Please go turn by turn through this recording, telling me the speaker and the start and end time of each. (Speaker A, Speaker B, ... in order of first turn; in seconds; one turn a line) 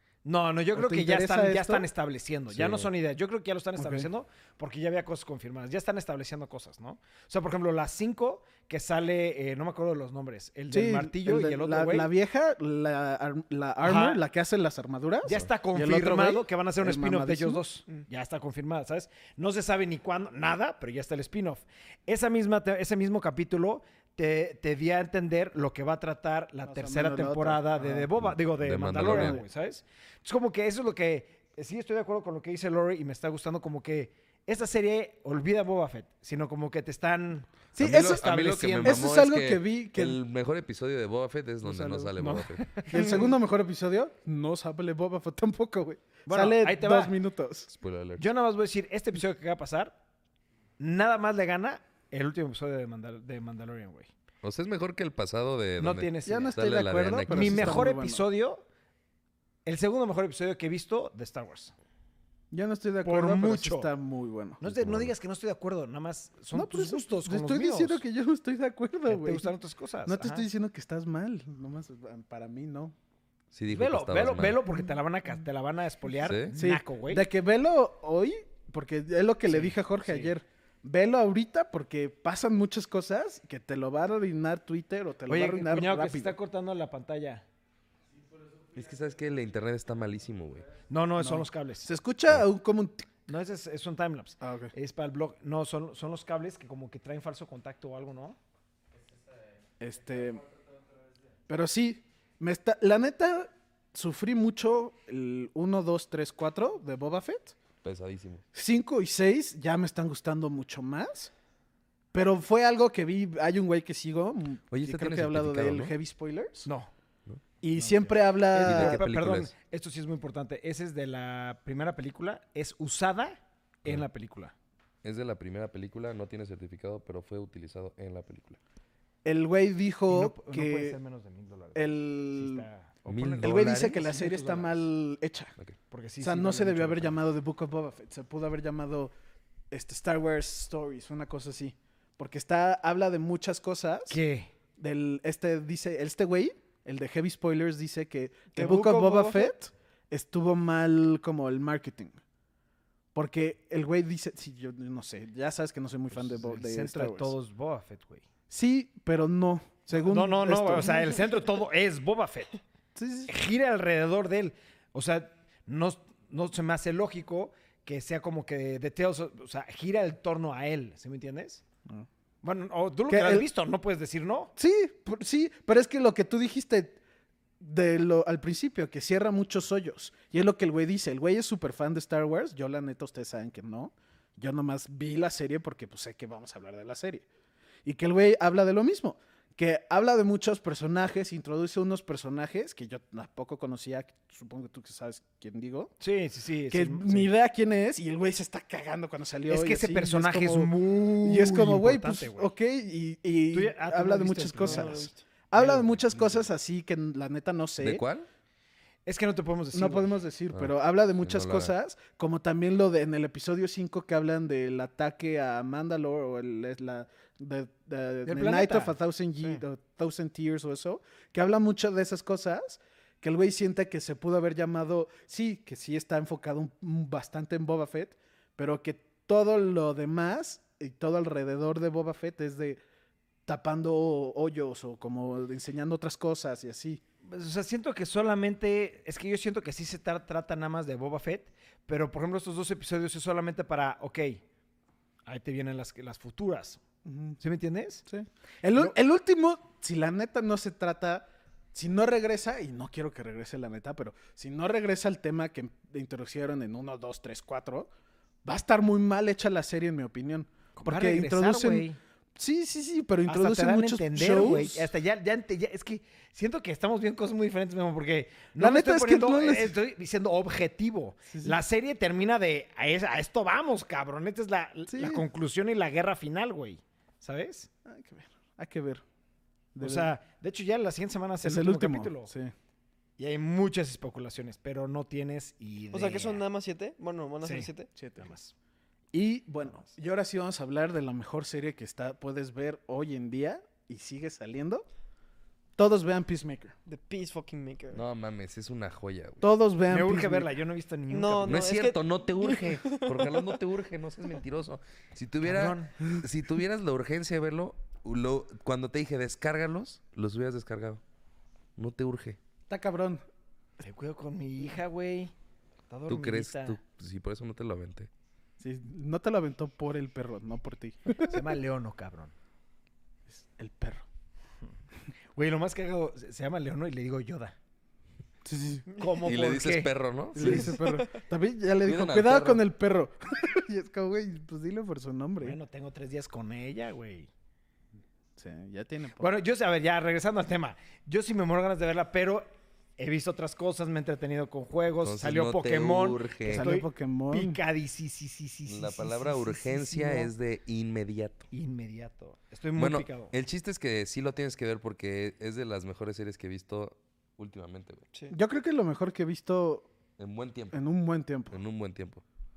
Speaker A: 0.2-12.1
Speaker B: 0.7-1.9
Speaker C: 2.5-2.9
Speaker B: 3.8-4.1
Speaker B: 10.7-17.6
Speaker A: 13.8-14.2
Speaker A: 15.2-39.1
Speaker B: 26.6-28.1
Speaker C: 28.2-29.4
Speaker B: 28.9-29.4
Speaker C: 37.8-42.8
Speaker B: 37.8-38.3
Speaker B: 38.8-40.2
Speaker B: 41.6-42.3
Speaker A: 42.2-43.3
Speaker B: 42.9-47.7
Speaker A: 46.3-47.2
Speaker C: 47.7-48.3
Speaker A: 48.2-50.0
Speaker A: 50.8-54.1
Speaker C: 54.4-57.9
Speaker A: 55.8-56.6
Speaker B: 56.3-58.2
Speaker A: 57.3-58.6
Speaker A: 59.6-61.7
Speaker B: 62.5-64.9
Speaker A: 63.0-63.9
Speaker A: 64.6-68.0
Speaker C: 64.7-65.1
Speaker B: 66.5-69.5
Speaker A: 69.1-70.5
Speaker B: 70.1-72.9
Speaker C: 73.5-74.6
Speaker A: 73.7-77.3
Speaker C: 76.2-76.5
Speaker B: 76.5-86.4
Speaker A: 79.5-80.3
Speaker A: 85.3-87.4
Speaker C: 88.7-90.7
Speaker A: 90.9-91.9
Speaker B: 91.2-93.1
Speaker A: 93.3-98.4
Speaker B: 94.4-94.7
Speaker B: 99.8-100.5
Speaker B: 101.5-107.6
Speaker C: 107.8-108.5
Speaker B: 108.5-111.3
Speaker B: 112.1-116.7
Speaker C: 114.7-116.0
Speaker A: 116.7-116.9
Speaker B: 117.6-119.0
Speaker A: 117.8-124.5
Speaker C: 118.6-119.5
Speaker C: 125.0-128.6
Speaker B: 129.2-131.0
Speaker A: 130.1-134.9
Speaker B: 131.8-132.7
Speaker C: 133.1-134.0
Speaker B: 133.4-135.6
Speaker A: 135.9-137.2
Speaker B: 136.2-139.1
Speaker B: 139.7-144.2
Speaker A: 144.1-144.5
Speaker B: 144.8-152.2
Speaker D: 148.5-149.5
Speaker B: 153.2-157.3
Speaker A: 156.1-158.2
Speaker B: 158.5-161.2
Speaker A: 159.9-162.6
Speaker B: 162.9-163.3
Speaker A: 163.3-171.6
Speaker A: 172.4-174.5
Speaker B: 173.1-173.5
Speaker B: 174.6-177.0
Speaker B: 177.6-187.2
Speaker B: 187.8-195.9
Speaker A: 196.0-197.3
Speaker B: 196.7-208.0
Speaker A: 199.5-202.5
Speaker A: 203.5-206.4
Speaker D: 204.6-205.2
Speaker C: 207.8-208.3
Speaker A: 209.1-210.1
Speaker B: 209.7-232.8
Speaker C: 210.5-211.7
Speaker A: 218.3-219.6
Speaker B: 233.5-237.0
Speaker A: 237.2-244.4
Speaker A: 245.3-246.8
Speaker B: 247.1-247.4
Speaker A: 247.4-248.0
Speaker B: 248.1-257.9
Speaker B: 258.4-264.9
Speaker A: 260.8-262.0
Speaker A: 263.3-277.7
Speaker B: 268.6-269.8
Speaker B: 271.3-271.6
Speaker B: 274.9-275.2
Speaker B: 277.9-279.0
Speaker B: 279.7-280.1
Speaker A: 279.8-282.3
Speaker B: 281.4-282.5
Speaker A: 283.2-286.4
Speaker D: 285.9-287.9
Speaker A: 287.4-288.5
Speaker B: 287.9-288.3
Speaker B: 289.1-294.9
Speaker B: 295.8-296.8
Speaker D: 296.9-298.0
Speaker C: 297.9-299.5
Speaker B: 299.4-300.5
Speaker A: 299.9-301.7
Speaker D: 301.1-303.5
Speaker C: 301.4-311.0
Speaker A: 305.4-305.9
Speaker C: 311.8-312.4
Speaker B: 312.7-313.2
Speaker A: 313.8-315.3
Speaker A: 315.9-316.8
Speaker C: 316.1-318.1
Speaker B: 318.6-321.4
Speaker A: 321.2-322.3
Speaker B: 323.3-324.1
Speaker A: 325.4-327.6
Speaker B: 328.4-328.9
Speaker A: 329.0-330.8
Speaker C: 329.2-330.8
Speaker B: 330.4-335.6
Speaker C: 331.8-332.6
Speaker A: 335.4-337.3
Speaker B: 338.4-339.3
Speaker A: 339.2-342.5
Speaker A: 343.0-350.3
Speaker C: 345.0-346.7
Speaker B: 346.5-347.6
Speaker C: 348.7-351.5
Speaker A: 351.5-353.3
Speaker C: 352.8-358.0
Speaker B: 358.3-359.9
Speaker C: 360.2-360.8
Speaker B: 360.7-361.6
Speaker C: 361.5-362.2